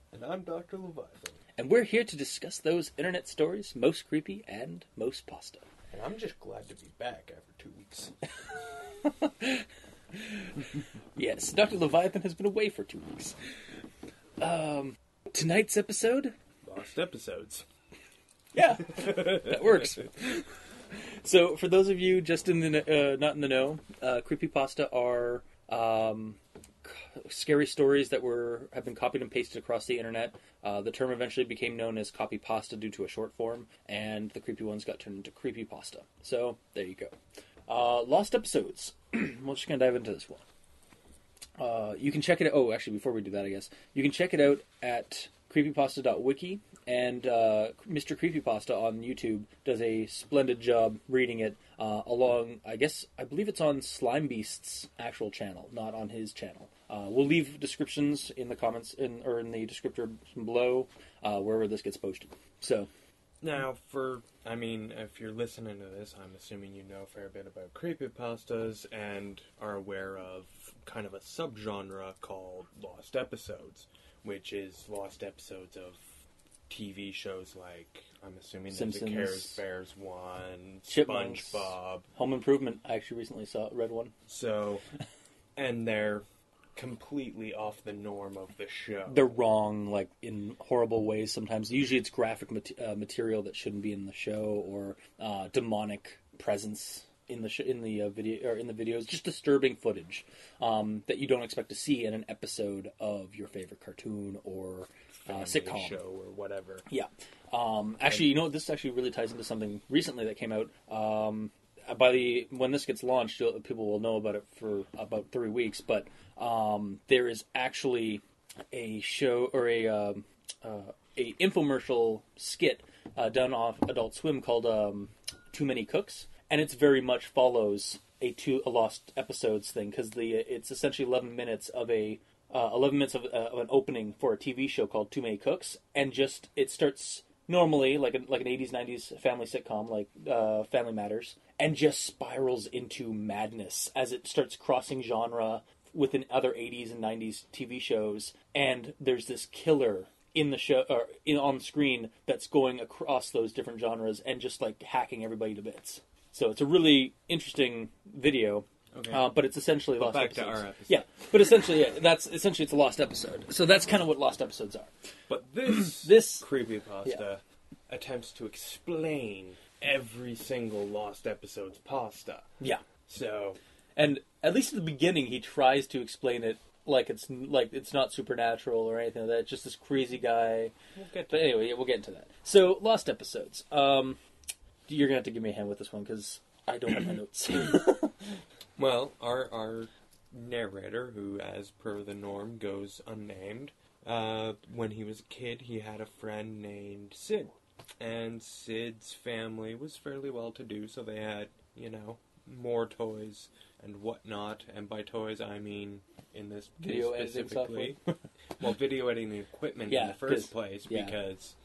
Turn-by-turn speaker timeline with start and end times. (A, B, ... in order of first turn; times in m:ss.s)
0:00.1-0:01.4 A
0:01.6-0:05.7 B
0:05.9-0:08.1 A
0:08.5-0:13.4 B
0:14.4-0:16.3 B
0:16.6-0:17.7 A
0:18.5-0:40.4 B
0:41.6-1:02.9 B
1:03.4-1:22.1 A
1:18.7-1:19.6 B
1:20.9-1:24.1 B
1:24.3-1:24.8 A
1:25.6-1:26.2 A
1:26.8-1:29.3 A
1:29.1-1:46.0 B
1:45.2-1:46.9 A
1:46.9-2:44.9 B
2:38.9-2:39.4 A
2:40.0-2:41.7 A
2:45.3-2:52.5 A
2:45.7-2:46.5 B
2:52.6-2:52.8 B
2:53.1-2:53.6 A
2:54.0-3:00.8 B
3:01.0-3:01.6 A
3:01.3-3:04.2 B
3:04.9-3:08.3 B
3:08.8-3:28.0 A
3:26.8-3:28.1 B
3:28.6-3:31.6 A
3:29.9-3:31.2 B